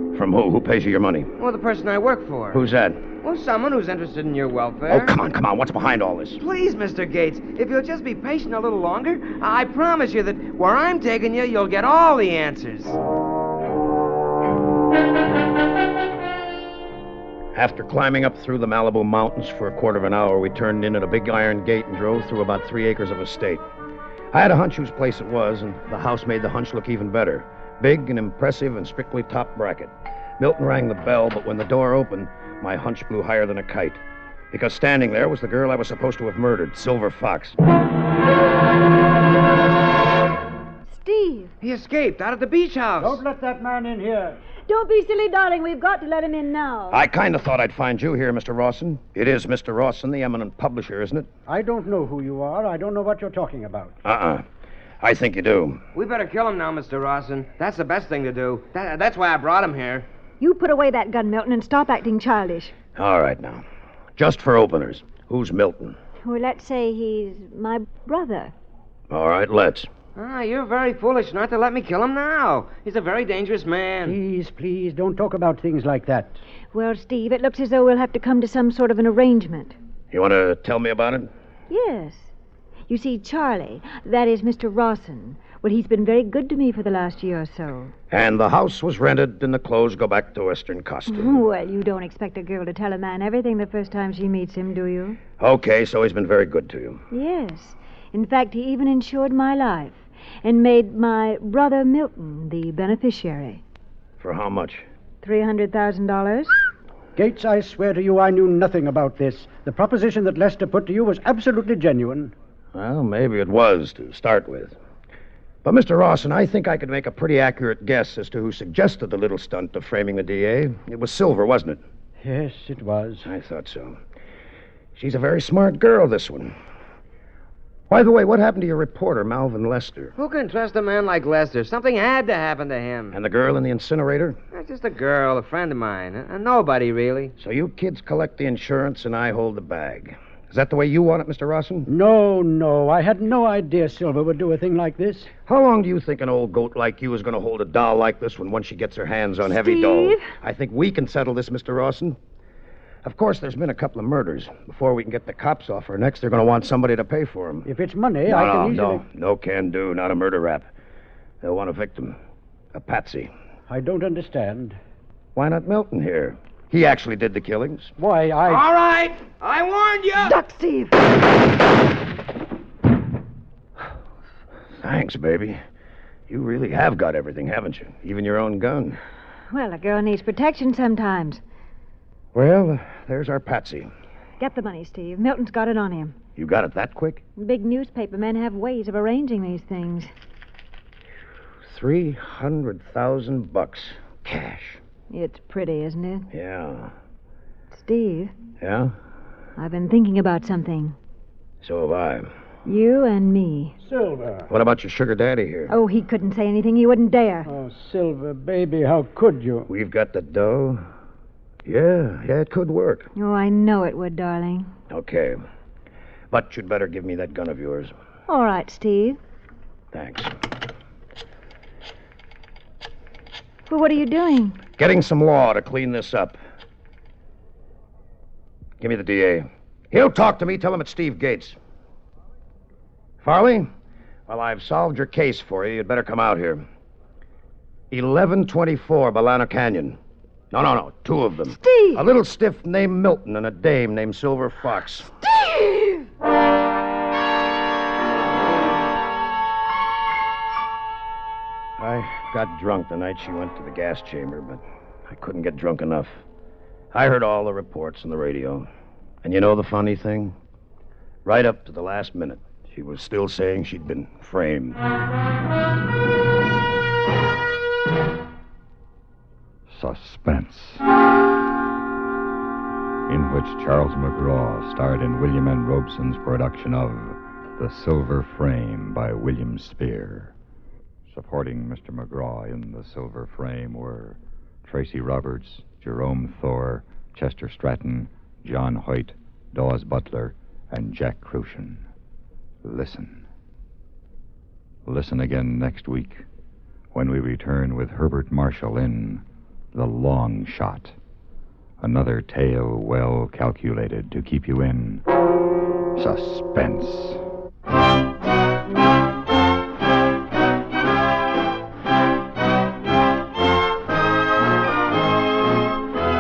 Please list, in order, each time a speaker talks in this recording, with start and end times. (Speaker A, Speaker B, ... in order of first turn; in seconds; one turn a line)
Speaker A: 0.1-1.3
Speaker B: 1.4-2.6
Speaker A: 2.5-3.1
Speaker B: 3.2-5.2
Speaker A: 4.9-6.4
Speaker B: 6.4-13.0
Speaker A: 17.5-23.6
Speaker A: 24.3-34.0
Speaker A: 34.5-37.5
Speaker C: 40.9-41.5
Speaker B: 41.6-43.2
Speaker D: 43.0-44.4
Speaker C: 44.7-47.0
Speaker A: 46.9-51.3
Speaker D: 51.5-53.9
Speaker A: 54.0-54.4
Speaker A: 55.0-55.8
Speaker B: 55.9-60.0
Speaker C: 60.4-62.7
Speaker A: 63.0-63.6
Speaker A: 64.2-66.0
Speaker C: 66.2-68.5
Speaker A: 69.1-69.9
Speaker B: 70.2-74.2
Speaker D: 74.0-76.4
Speaker C: 76.7-79.8
Speaker A: 80.1-81.3
Speaker C: 81.7-82.3
Speaker C: 82.9-87.9
Speaker A: 88.1-91.4
Speaker C: 91.1-95.2
Speaker A: 95.4-97.0
Speaker C: 97.1-103.6
Speaker A: 104.2-104.8
Speaker C: 105.2-106.6
Speaker D: 107.1-112.3
Speaker A: 112.7-114.8
Speaker A: 115.6-121.8
Speaker D: 122.2-123.3
Speaker A: 123.2-124.0
Speaker A: 125.0-126.5
Speaker A: 127.9-130.1
Speaker B: 130.2-133.2
Speaker A: 133.1-134.4
Speaker B: 134.5-137.3
Speaker A: 137.4-141.9
Speaker D: 141.9-145.3
Speaker A: 145.5-152.2
Speaker C: 149.4-150.2
Speaker A: 153.0-157.7
Speaker D: 157.6-159.0
Speaker A: 158.3-160.7
Speaker A: 161.4-162.2
Speaker A: 162.7-163.3
Speaker D: 163.7-164.8
Speaker A: 165.3-167.9
Speaker D: 168.0-168.7
Speaker B: 168.4-170.4
Speaker C: 170.2-171.0
Speaker A: 174.8-175.6
Speaker A: 176.3-179.0
Speaker C: 179.5-181.4
Speaker A: 182.3-183.9
Speaker C: 184.4-186.1
Speaker A: 186.3-187.2
Speaker C: 187.4-190.1
Speaker A: 191.7-194.8
Speaker C: 195.1-196.3
Speaker A: 196.3-196.9
Speaker C: 197.7-198.3
Speaker A: 198.6-198.9
Speaker C: 199.6-201.0
Speaker A: 201.6-202.3
Speaker C: 202.6-203.8
Speaker D: 203.8-204.5
Speaker A: 204.5-205.7
Speaker C: 205.7-207.5
Speaker D: 207.4-209.7
Speaker A: 209.7-210.8
Speaker A: 211.6-213.1
Speaker C: 213.2-214.7
Speaker A: 214.9-215.4
Speaker A: 216.3-217.9
Speaker C: 218.3-219.2
Speaker A: 219.9-220.4
Speaker C: 223.7-224.6
Speaker A: 224.8-226.4
Speaker A: 228.8-231.6
Speaker A: 233.2-233.7
Speaker A: 234.3-236.6
Speaker A: 237.9-240.0
Speaker A: 240.5-245.1
Speaker C: 241.5-242.0
Speaker C: 245.2-246.0
Speaker A: 251.8-256.1
Speaker A: 256.9-258.7
Speaker A: 259.2-260.4
Speaker A: 261.2-264.8
Speaker E: 269.7-270.8
Speaker E: 273.1-280.3
Speaker E: 281.1-291.8
Speaker E: 292.6-293.2
Speaker E: 294.9-296.2
Speaker E: 296.9-300.9
Speaker E: 301.8-305.0
Speaker E: 305.9-307.2